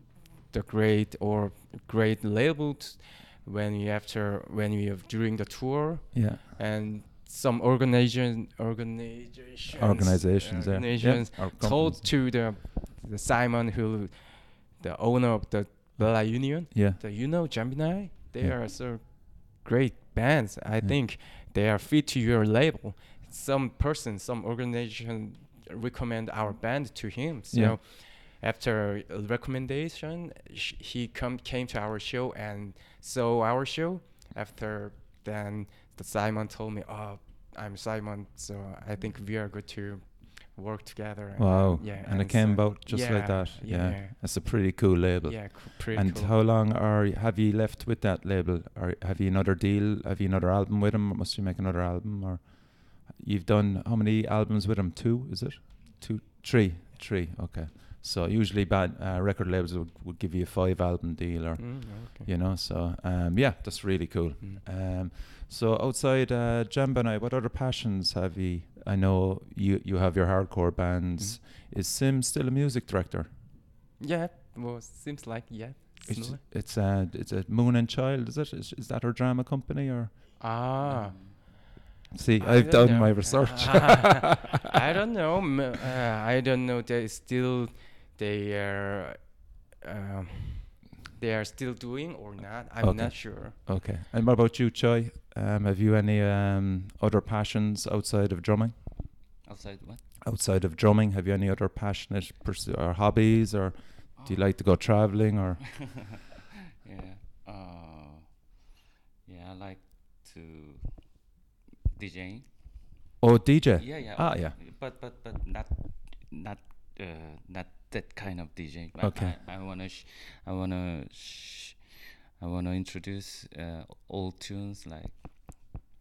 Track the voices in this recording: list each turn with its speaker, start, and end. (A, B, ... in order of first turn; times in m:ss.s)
0:00.5-0:46.3 A
0:06.1-0:06.4 B
0:09.7-0:12.1 B
0:16.0-0:17.0 B
0:27.5-0:27.8 B
0:41.4-1:13.3 B
1:01.6-1:02.3 A
1:11.2-1:11.4 A
1:14.0-1:16.4 A
1:16.1-1:20.5 B
1:20.4-1:21.6 A
1:20.8-1:21.4 C
1:22.1-1:24.3 B
1:22.4-1:33.6 A
1:32.8-1:39.3 B
1:39.4-1:40.0 C
1:40.2-1:46.1 B
1:44.2-1:45.0 C
1:46.8-1:48.4 C
1:49.2-1:51.3 C
1:51.9-1:52.8 C
1:53.2-1:54.6 B
1:53.8-2:05.8 C
1:59.0-1:59.4 B